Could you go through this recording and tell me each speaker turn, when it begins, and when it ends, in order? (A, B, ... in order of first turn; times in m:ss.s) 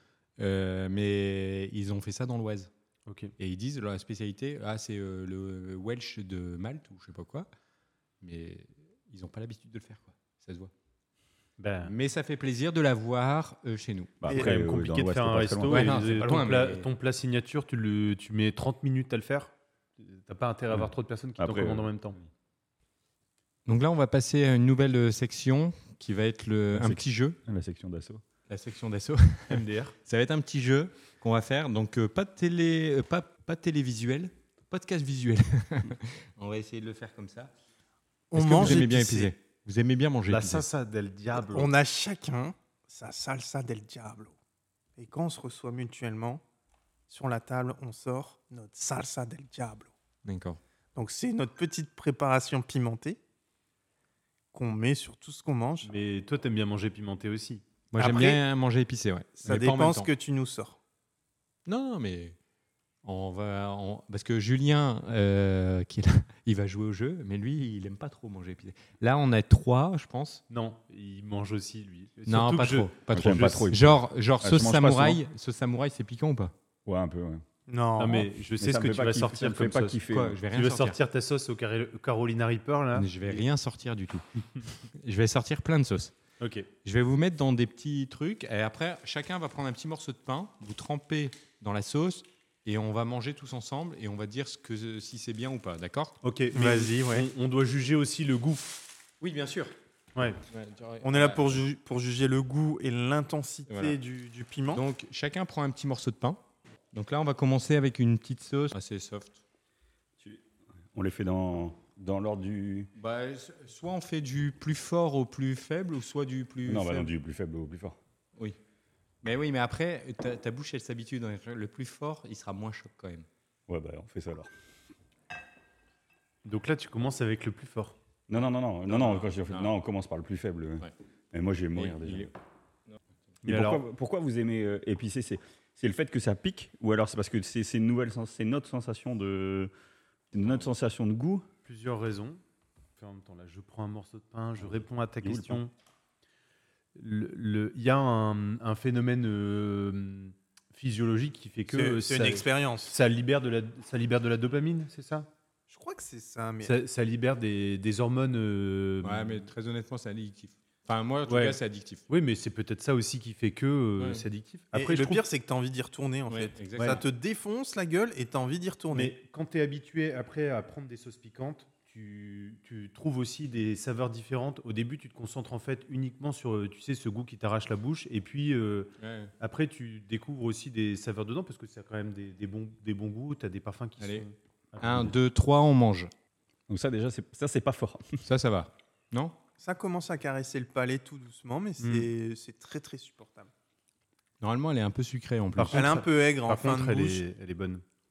0:00.4-0:02.7 A
0:03.1-0:03.3 B
0:03.4-0:07.5 A
0:08.2-0:10.7 A
0:11.6-0:11.9 B
0:11.8-0:14.2 A
0:14.2-0:16.1 C
0:14.3-0:22.2 B
0:15.7-0:16.9 A
0:20.7-0:22.3 C
0:23.6-0:27.4 A
0:26.7-0:28.2 C
0:28.5-0:37.5 A
0:29.5-0:29.9 B
0:38.3-0:39.3 D
0:38.3-0:40.6 A
0:40.3-0:41.7 B
0:41.3-0:44.3 D
0:45.0-0:46.4 D
0:47.1-0:49.9 D
0:50.2-0:50.6 A
0:50.9-0:53.2 D
0:54.5-0:55.9 D
0:55.8-0:57.6 B
0:57.9-1:00.1 A
0:58.0-0:58.4 D
0:59.4-1:00.8 D
1:01.6-1:02.4 A
1:03.0-1:10.4 A
1:10.5-1:13.7 B
1:12.3-1:16.5 A
1:13.1-1:15.2 C
1:16.8-1:17.4 C
1:17.7-1:18.3 D
1:18.0-1:23.4 B
1:18.1-1:20.4 C
1:20.1-1:21.0 A
1:22.9-1:26.1 A
1:26.4-1:26.7 B
1:26.8-1:36.2 A
1:36.2-1:38.9 B
1:36.5-1:37.3 D
1:39.2-1:39.7 A
1:40.1-1:40.4 B
1:40.5-1:41.6 A
1:41.0-1:44.8 D
1:43.7-1:44.0 A
1:44.7-1:46.4 A
1:46.9-1:49.4 A
1:50.2-1:52.9 C
1:52.9-1:57.1 A
1:56.6-1:58.0 C
1:59.2-2:03.3 A
2:03.7-2:04.5 C
2:06.4-2:08.0 B
2:08.3-2:12.3 C
2:08.8-2:09.7 A
2:11.7-2:12.3 A
2:13.4-2:13.8 B
2:13.4-2:19.7 C
2:20.3-2:21.5 C
2:21.6-2:22.4 B
2:23.0-2:25.7 B
2:24.6-2:25.6 C
2:26.9-2:35.3 B
2:31.7-2:32.9 D
2:35.7-2:36.8 D
2:36.6-2:39.4 B
2:39.0-2:42.0 A
2:41.3-2:45.2 B
2:44.0-2:44.2 A
2:44.7-2:49.1 D
2:46.3-2:47.0 A
2:48.9-3:05.1 B
2:59.0-2:59.3 A
3:04.0-3:04.2 A
3:04.8-3:06.1 A
3:06.7-3:08.2 C
3:08.2-3:09.4 A
3:09.6-3:13.5 D
3:11.8-3:12.1 B
3:14.4-3:15.9 A
3:15.6-3:17.8 B
3:15.7-3:17.2 D